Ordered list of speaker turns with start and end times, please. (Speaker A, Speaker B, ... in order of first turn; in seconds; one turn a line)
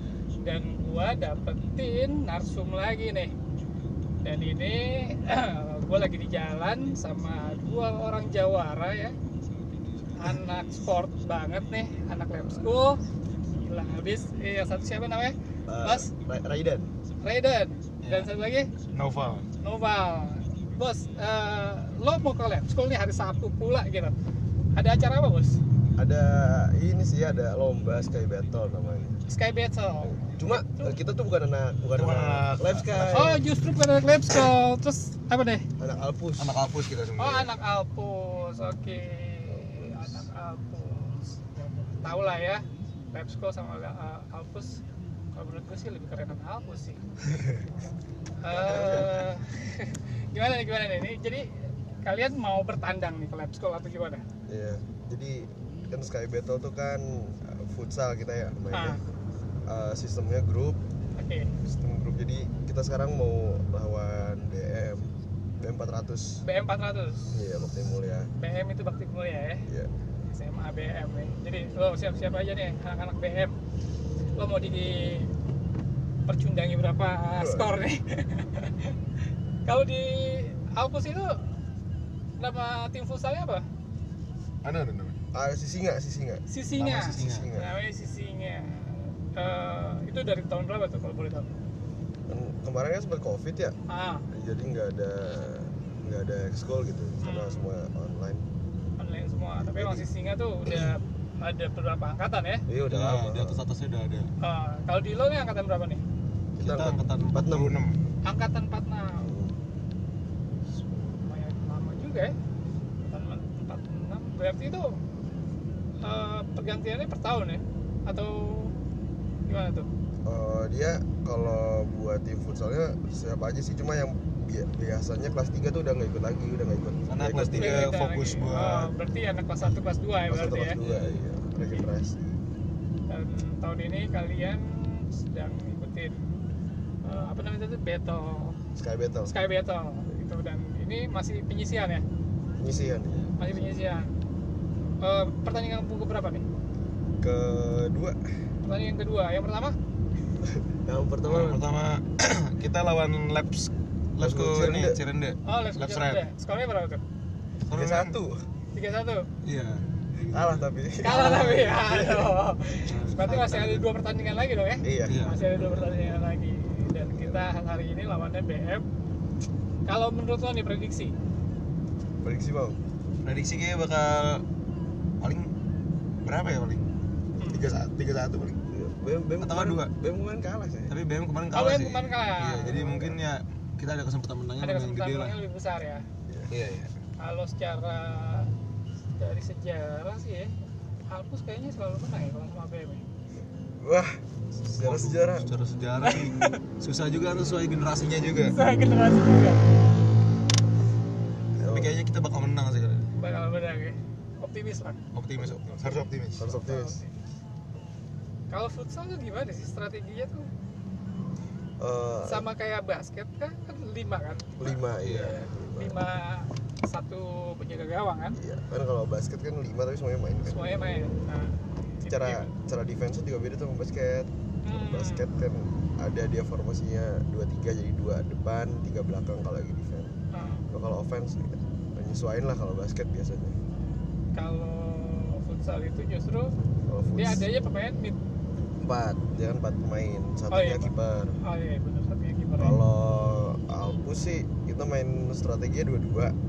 Speaker A: 0.4-3.3
Speaker A: 4.2-9.1
Speaker A: 10.2-13.0
Speaker A: 13.5-16.1
Speaker B: 15.7-16.9
Speaker A: 17.2-18.7
Speaker C: 18.0-18.3
Speaker C: 18.9-19.5
Speaker A: 19.6-24.1
Speaker A: 24.7-25.6
Speaker B: 26.0-29.2
Speaker A: 29.3-30.9
Speaker B: 30.1-33.4
Speaker C: 31.9-33.4
Speaker A: 33.1-35.6
Speaker B: 35.8-36.5
Speaker C: 36.4-37.5
Speaker A: 37.2-44.8
Speaker A: 45.3-47.0
Speaker B: 47.3-47.6
Speaker A: 48.4-54.2
Speaker B: 48.5-49.2
Speaker B: 54.5-59.0
Speaker A: 58.7-59.0
Speaker B: 59.7-60.8
Speaker A: 61.1-61.5
Speaker B: 61.6-66.4
Speaker A: 66.4-67.4
Speaker B: 67.3-68.3
Speaker A: 68.4-69.7
Speaker A: 70.2-73.6
Speaker A: 74.3-75.3
Speaker A: 76.3-79.0
Speaker B: 77.4-77.7
Speaker A: 79.7-81.4
Speaker A: 82.4-83.6
Speaker C: 84.6-85.2
Speaker B: 85.3-87.8
Speaker A: 86.5-91.5
Speaker C: 87.0-87.5
Speaker B: 92.3-93.8
Speaker A: 93.9-94.2
Speaker B: 94.3-98.4
Speaker A: 97.2-97.7
Speaker A: 99.0-102.7
Speaker B: 99.6-100.1
Speaker B: 100.7-100.9
Speaker B: 102.7-103.6
Speaker C: 102.9-104.3
Speaker A: 104.4-106.0
Speaker B: 106.6-107.8
Speaker C: 106.6-108.0
Speaker A: 108.2-109.3
Speaker B: 109.2-109.5
Speaker A: 110.7-112.3
Speaker A: 113.0-115.0
Speaker A: 116.0-118.7
Speaker A: 119.5-119.9
Speaker B: 120.2-127.9
Speaker C: 127.1-128.9
Speaker A: 127.5-130.8
Speaker B: 130.3-132.4
Speaker C: 130.8-131.2
Speaker A: 133.1-136.3
Speaker A: 137.0-138.6
Speaker B: 138.8-139.3
Speaker A: 139.3-142.0
Speaker B: 142.6-143.7
Speaker A: 143.4-144.1
Speaker A: 145.0-146.4
Speaker B: 147.2-148.2
Speaker A: 148.6-149.8
Speaker B: 150.4-151.7
Speaker C: 151.2-156.2
Speaker B: 154.2-155.0
Speaker A: 155.4-157.0
Speaker C: 157.7-158.2
Speaker B: 157.7-158.5
Speaker A: 158.7-159.3
Speaker C: 159.4-161.7
Speaker B: 160.3-162.3
Speaker A: 161.0-168.8
Speaker C: 162.8-163.9
Speaker B: 164.8-166.1
Speaker C: 165.0-165.4
Speaker B: 166.9-167.5
Speaker A: 169.8-171.1
Speaker B: 172.2-172.8
Speaker C: 173.2-174.4
Speaker C: 175.2-175.5
Speaker C: 176.2-176.9
Speaker A: 177.4-177.7
Speaker C: 177.5-178.6
Speaker B: 178.7-180.9
Speaker C: 179.4-179.9
Speaker C: 180.9-185.4
Speaker A: 181.5-182.8
Speaker B: 182.5-183.2
Speaker A: 184.6-186.1
Speaker C: 186.5-186.9
Speaker A: 187.2-188.5
Speaker A: 189.2-190.5
Speaker A: 191.1-193.0
Speaker B: 193.8-195.5
Speaker C: 194.8-198.6
Speaker A: 196.0-196.6
Speaker A: 198.5-199.7
Speaker B: 201.6-202.0
Speaker C: 201.6-203.1
Speaker A: 203.2-205.0
Speaker C: 205.1-206.5
Speaker B: 205.4-207.0
Speaker A: 206.4-207.2
Speaker A: 208.5-210.5
Speaker B: 211.8-212.5
Speaker A: 212.2-214.8
Speaker B: 214.6-216.0
Speaker C: 215.0-215.4
Speaker A: 215.4-218.4
Speaker B: 218.4-220.6
Speaker A: 220.4-222.5
Speaker B: 222.1-230.1
Speaker A: 224.6-225.3
Speaker A: 230.3-230.7
Speaker B: 230.7-233.6
Speaker A: 234.3-236.6
Speaker B: 236.9-237.5
Speaker A: 237.1-238.2
Speaker B: 238.8-241.4
Speaker A: 240.5-242.8
Speaker B: 242.6-246.3